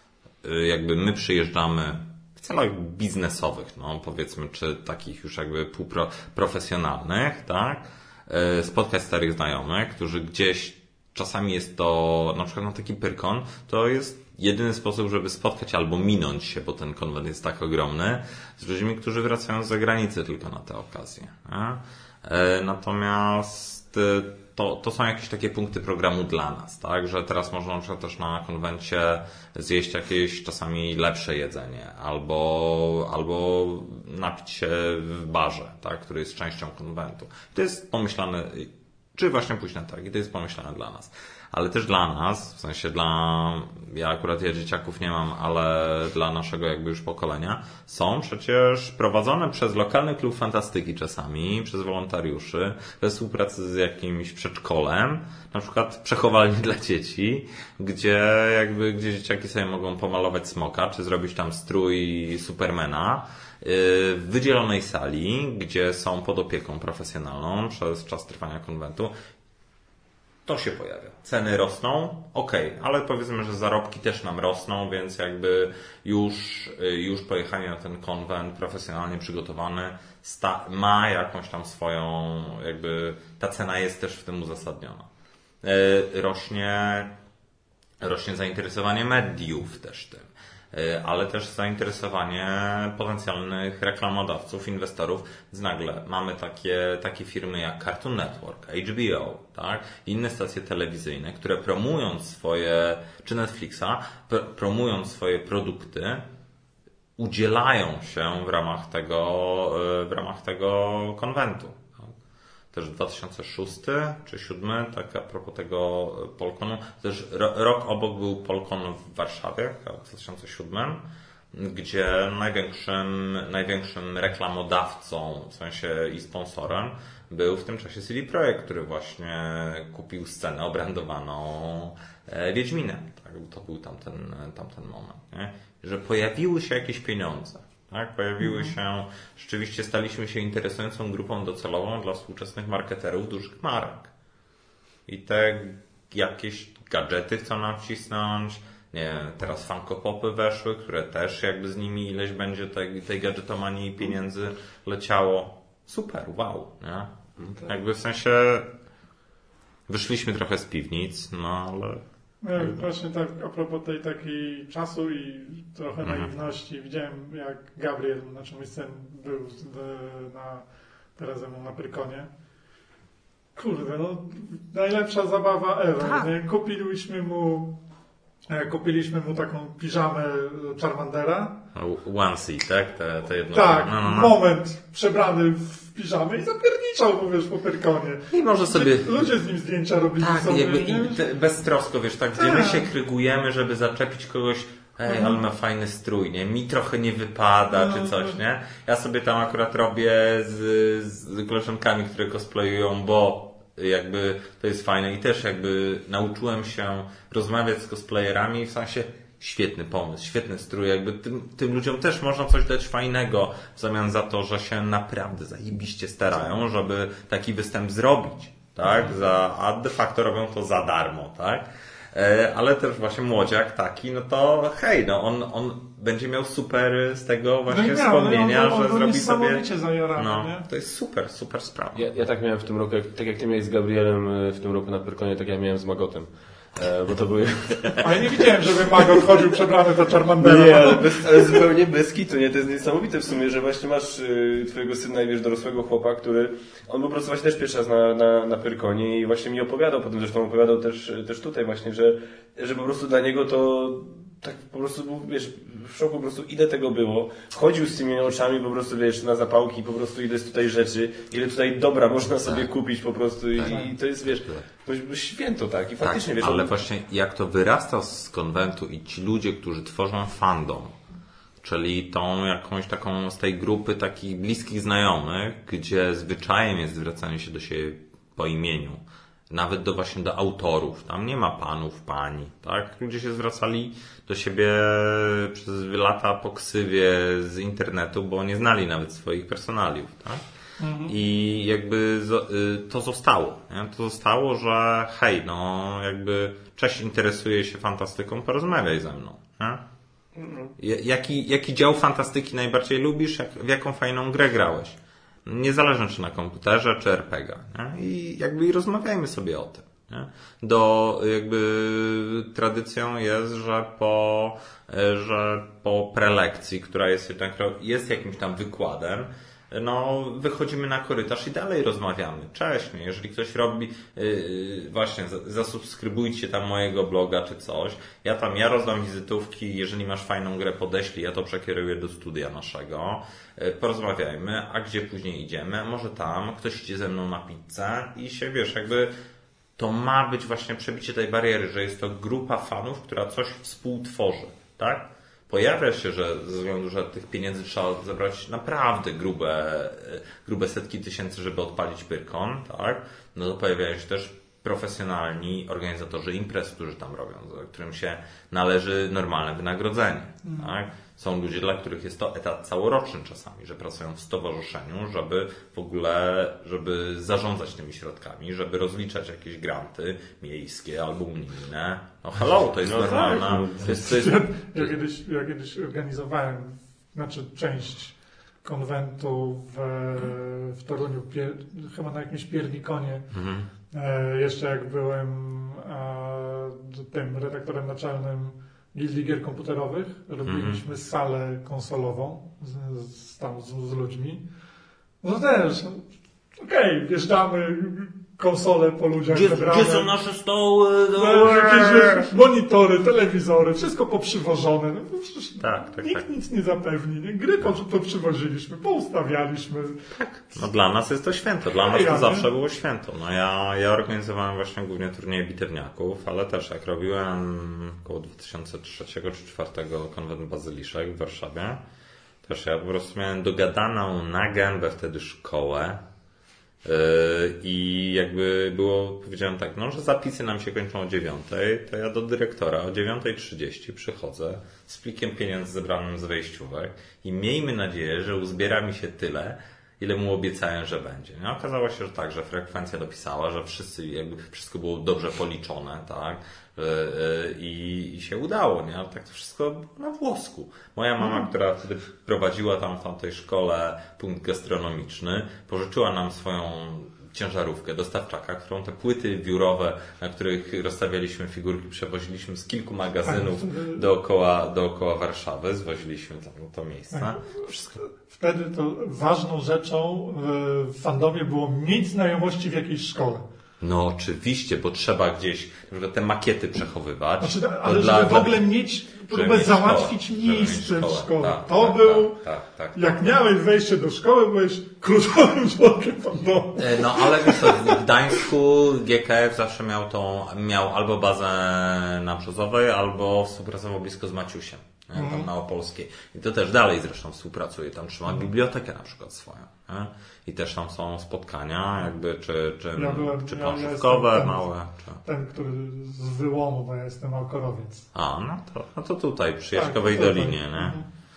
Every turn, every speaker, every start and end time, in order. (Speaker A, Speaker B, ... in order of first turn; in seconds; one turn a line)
Speaker A: 0.4-69.1
Speaker A: 70.5-85.1
Speaker A: 85.6-87.2
Speaker A: 88.0-106.3
Speaker A: 107.2-112.1
Speaker A: 112.7-144.1
Speaker B: 138.4-138.7
Speaker A: 145.1-158.7
Speaker A: 159.9-162.0
Speaker B: 162.4-170.6
Speaker A: 162.6-162.8
Speaker A: 166.0-166.3
Speaker B: 171.2-172.3
Speaker B: 173.6-177.8
Speaker A: 176.0-176.3
Speaker B: 178.5-181.6
Speaker A: 181.7-184.3
Speaker B: 183.5-191.2
Speaker A: 188.3-189.3
Speaker A: 190.2-232.1
Speaker B: 192.4-192.8
Speaker B: 195.1-195.4
Speaker B: 197.7-198.3
Speaker B: 218.8-219.2
Speaker B: 227.7-230.7
Speaker C: 231.9-239.2
Speaker B: 238.0-241.6
Speaker C: 240.4-266.8
Speaker A: 263.6-264.7
Speaker A: 266.0-271.0
Speaker A: 271.6-290.4
Speaker B: 290.8-291.1
Speaker A: 291.1-299.8
Speaker C: 300.4-300.7
Speaker A: 300.8-339.1
Speaker A: 339.8-374.9
Speaker B: 360.4-360.7
Speaker C: 372.8-374.1
Speaker B: 373.0-383.3
Speaker A: 383.3-383.7
Speaker B: 383.9-394.4
Speaker A: 390.4-390.8
Speaker B: 395.2-396.0
Speaker B: 396.6-400.1
Speaker A: 399.3-402.3
Speaker B: 401.2-410.1
Speaker A: 405.6-406.2
Speaker A: 410.1-421.8
Speaker B: 411.8-412.5
Speaker A: 422.4-426.0
Speaker A: 426.8-467.9
Speaker B: 463.2-464.0
Speaker B: 467.1-473.5
Speaker A: 473.8-478.6
Speaker B: 477.4-482.4
Speaker A: 479.3-483.4
Speaker B: 482.9-488.0
Speaker A: 486.8-505.2
Speaker B: 495.1-495.5
Speaker B: 502.9-504.7
Speaker B: 505.2-508.1
Speaker A: 508.1-511.0
Speaker B: 509.7-511.0